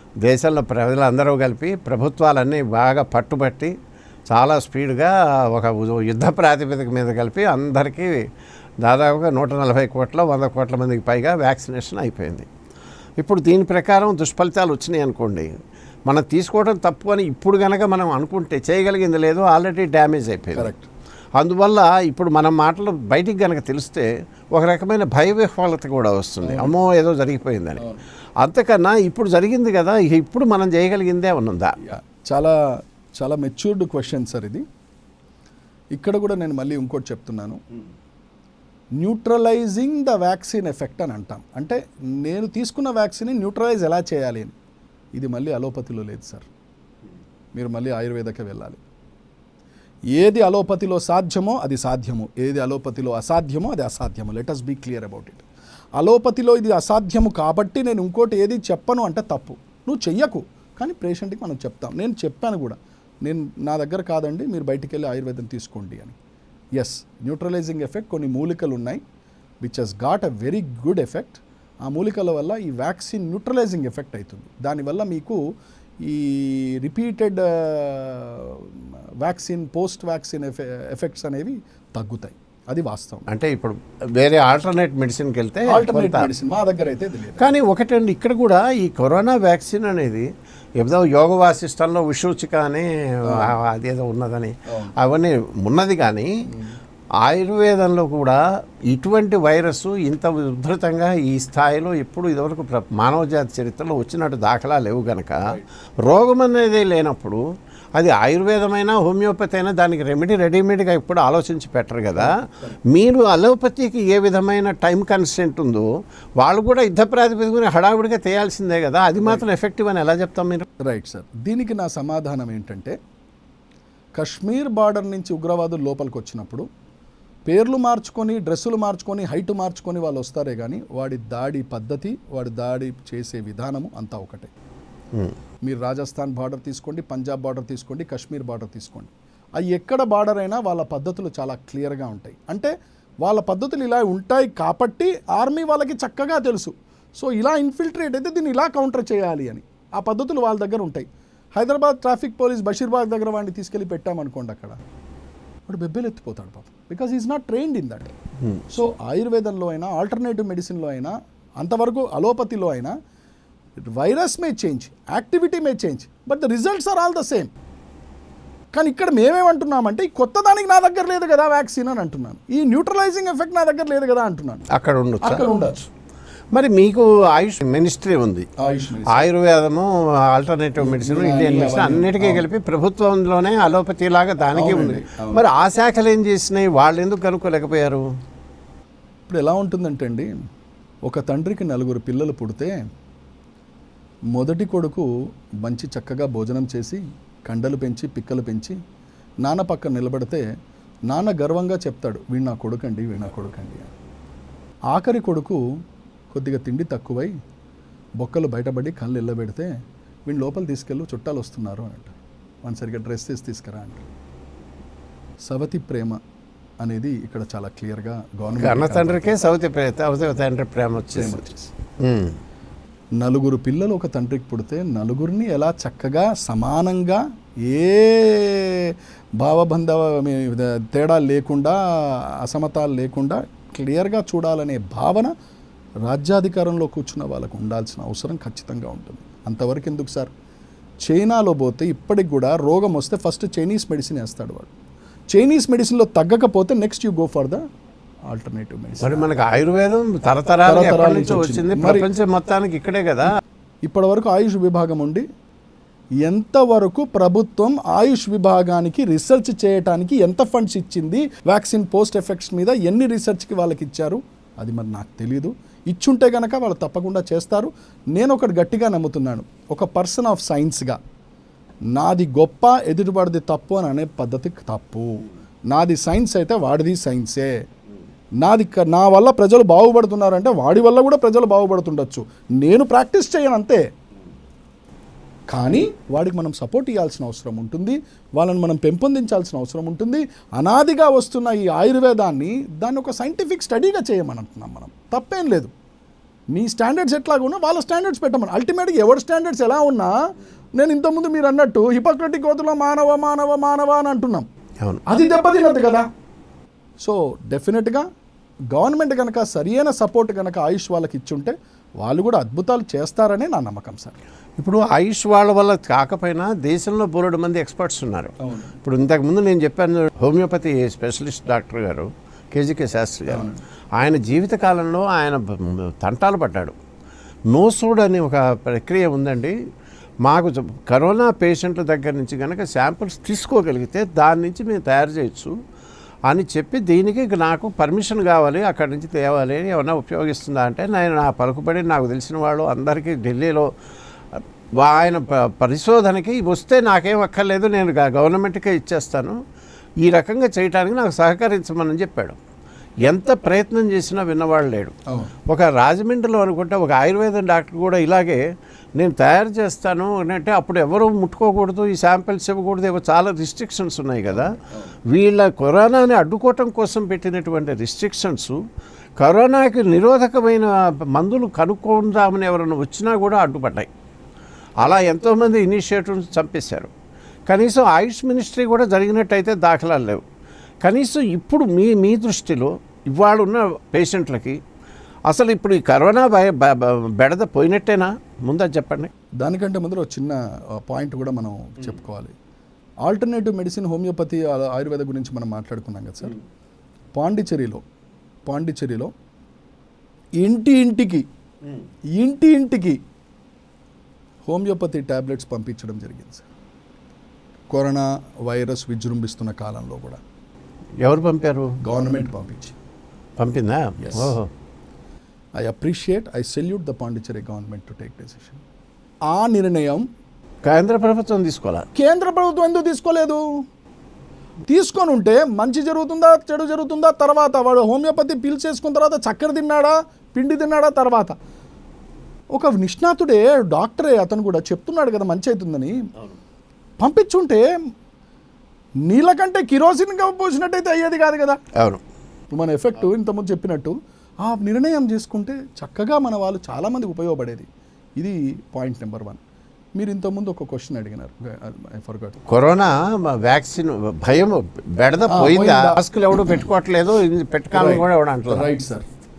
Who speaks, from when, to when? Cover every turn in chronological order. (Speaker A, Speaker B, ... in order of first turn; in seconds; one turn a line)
Speaker A: 0.2-3.7
Speaker A: 4.3-8.2
Speaker A: 8.8-12.5
Speaker A: 13.2-15.5
Speaker A: 16.1-20.7
Speaker B: 20.5-20.9
Speaker A: 21.4-27.9
Speaker B: 26.4-26.7
Speaker A: 28.4-31.7
Speaker B: 31.9-32.6
Speaker B: 33.2-34.6
Speaker B: 35.9-37.6
Speaker B: 39.0-44.5
Speaker B: 45.1-46.5
Speaker B: 47.5-48.8
Speaker B: 50.2-55.4
Speaker B: 56.0-66.2
Speaker B: 66.8-69.0
Speaker B: 69.6-75.4
Speaker B: 76.0-83.3
Speaker A: 83.3-86.3
Speaker B: 85.7-87.4
Speaker A: 87.4-90.2
Speaker A: 90.8-96.3
Speaker B: 93.2-93.5
Speaker B: 96.5-96.8
Speaker A: 97.2-98.4
Speaker A: 98.9-105.4
Speaker A: 106.0-107.4
Speaker A: 108.0-112.3
Speaker B: 112.2-112.8
Speaker A: 112.9-115.8
Speaker A: 116.4-120.7
Speaker B: 119.2-119.4
Speaker B: 120.8-123.0
Speaker B: 124.2-126.6
Speaker B: 127.5-134.5
Speaker B: 135.6-142.7
Speaker B: 143.2-154.8
Speaker B: 155.7-158.1
Speaker B: 158.7-162.9
Speaker B: 163.9-167.5
Speaker B: 168.7-174.7
Speaker A: 174.7-175.4
Speaker B: 175.2-175.9
Speaker A: 176.5-178.5
Speaker B: 178.6-179.3
Speaker A: 179.1-188.0
Speaker B: 180.8-182.4
Speaker B: 184.5-185.4
Speaker B: 189.3-190.3
Speaker B: 191.1-192.8
Speaker B: 194.3-195.1
Speaker B: 195.6-198.7
Speaker B: 199.4-200.4
Speaker B: 201.1-203.9
Speaker B: 204.9-205.6
Speaker B: 206.3-207.3
Speaker B: 208.2-209.7
Speaker B: 210.3-214.0
Speaker B: 215.4-216.2
Speaker B: 216.8-219.3
Speaker A: 218.6-221.4
Speaker B: 221.1-221.7
Speaker A: 222.0-222.3
Speaker B: 223.2-235.3
Speaker B: 236.1-240.3
Speaker B: 241.0-244.7
Speaker B: 245.3-247.6
Speaker B: 248.3-249.3
Speaker A: 249.0-253.3
Speaker B: 250.7-252.1
Speaker B: 253.8-255.2
Speaker B: 256.2-271.0
Speaker B: 271.9-275.2
Speaker B: 275.7-277.5
Speaker B: 278.4-283.8
Speaker B: 285.5-295.7
Speaker B: 296.5-300.1
Speaker B: 300.8-304.5
Speaker B: 305.1-306.1
Speaker B: 307.0-308.1
Speaker B: 308.7-314.2
Speaker A: 314.6-323.5
Speaker B: 318.4-318.8
Speaker B: 323.3-323.6
Speaker A: 324.0-326.7
Speaker A: 327.5-329.5
Speaker A: 330.2-335.5
Speaker A: 336.3-343.7
Speaker A: 344.3-349.4
Speaker A: 350.0-352.4
Speaker A: 353.1-354.9
Speaker A: 355.5-358.4
Speaker A: 359.0-364.6
Speaker B: 364.3-364.9
Speaker A: 365.1-368.6
Speaker A: 369.2-373.9
Speaker A: 374.8-376.9
Speaker A: 377.5-380.2
Speaker A: 380.8-384.6
Speaker A: 385.3-389.1
Speaker B: 389.4-392.3
Speaker B: 393.0-396.4
Speaker B: 397.1-397.8
Speaker B: 398.5-399.1
Speaker B: 400.4-401.2
Speaker B: 402.1-403.0
Speaker B: 404.4-406.4
Speaker B: 407.7-410.2
Speaker A: 411.0-411.8
Speaker B: 411.8-412.7
Speaker A: 413.4-414.5
Speaker B: 414.0-414.4
Speaker B: 415.6-418.6
Speaker B: 419.3-420.0
Speaker A: 420.6-421.9
Speaker B: 421.9-423.5
Speaker B: 424.7-431.3
Speaker B: 432.5-436.0
Speaker B: 437.0-437.6
Speaker B: 439.1-441.6
Speaker B: 442.5-447.7
Speaker B: 448.2-449.4
Speaker B: 450.0-452.4
Speaker A: 452.5-458.7
Speaker B: 455.3-456.7
Speaker B: 457.7-459.1